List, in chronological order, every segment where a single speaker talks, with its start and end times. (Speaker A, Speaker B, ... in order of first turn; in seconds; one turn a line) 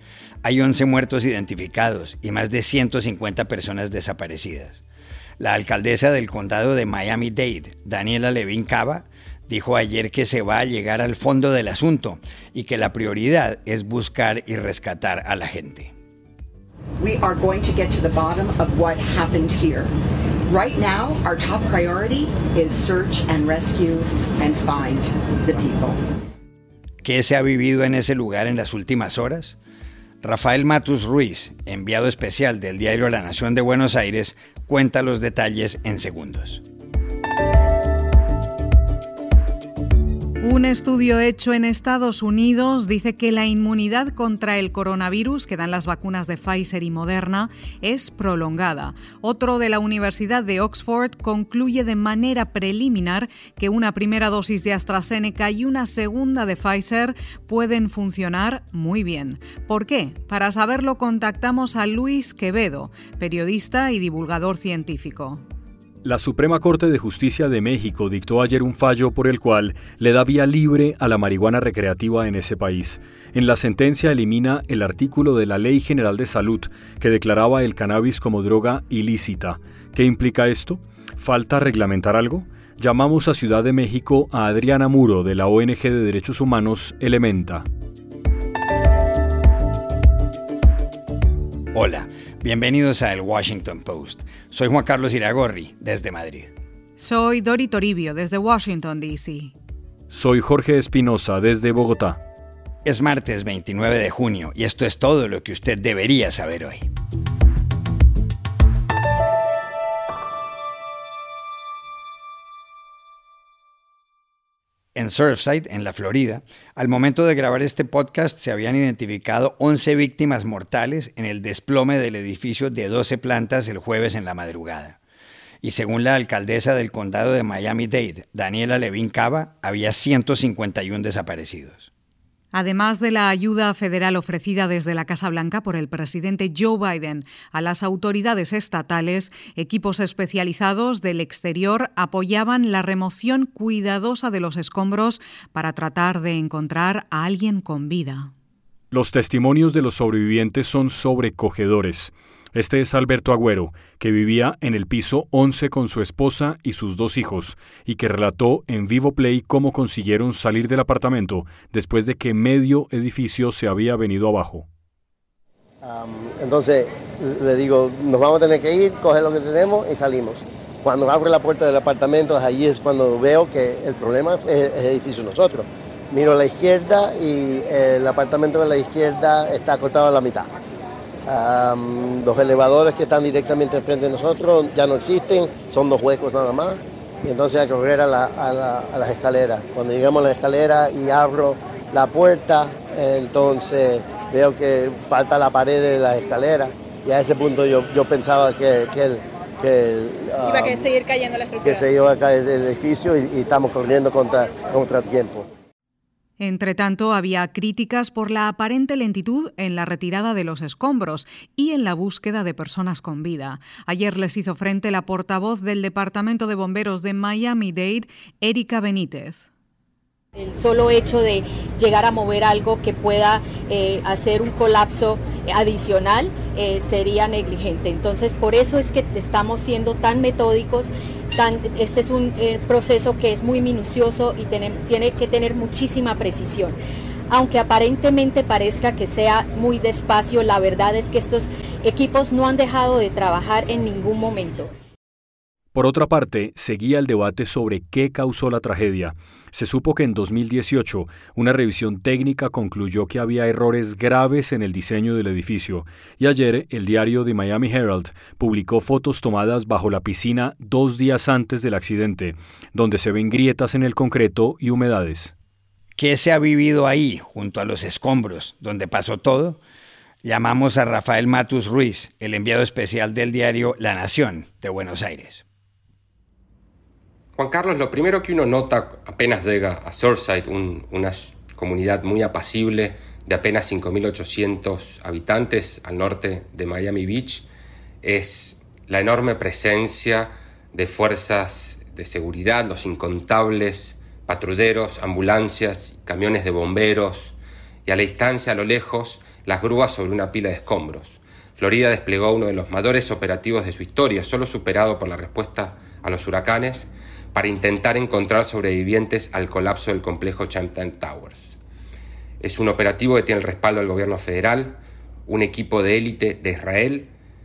Speaker A: 0.4-4.8
Speaker A: 5.4-15.9
Speaker B: 17.0-26.0
Speaker A: 27.0-29.6
Speaker A: 30.2-36.6
Speaker C: 40.4-65.4
Speaker D: 66.0-87.7
Speaker A: 91.7-96.5
Speaker C: 97.0-99.5
Speaker D: 100.1-102.2
Speaker A: 102.8-106.9
Speaker A: 115.0-125.0
Speaker A: 125.6-131.9
Speaker C: 132.5-148.3
Speaker D: 148.9-164.7
Speaker E: 165.8-180.5
Speaker E: 181.3-200.9
Speaker E: 201.6-205.5
Speaker C: 206.4-219.5
Speaker F: 220.4-236.8
Speaker F: 237.3-244.7
Speaker D: 245.7-265.3
Speaker A: 266.0-269.6
Speaker A: 270.2-275.4
Speaker G: 277.4-287.5
Speaker G: 288.0-311.6
Speaker G: 312.4-317.1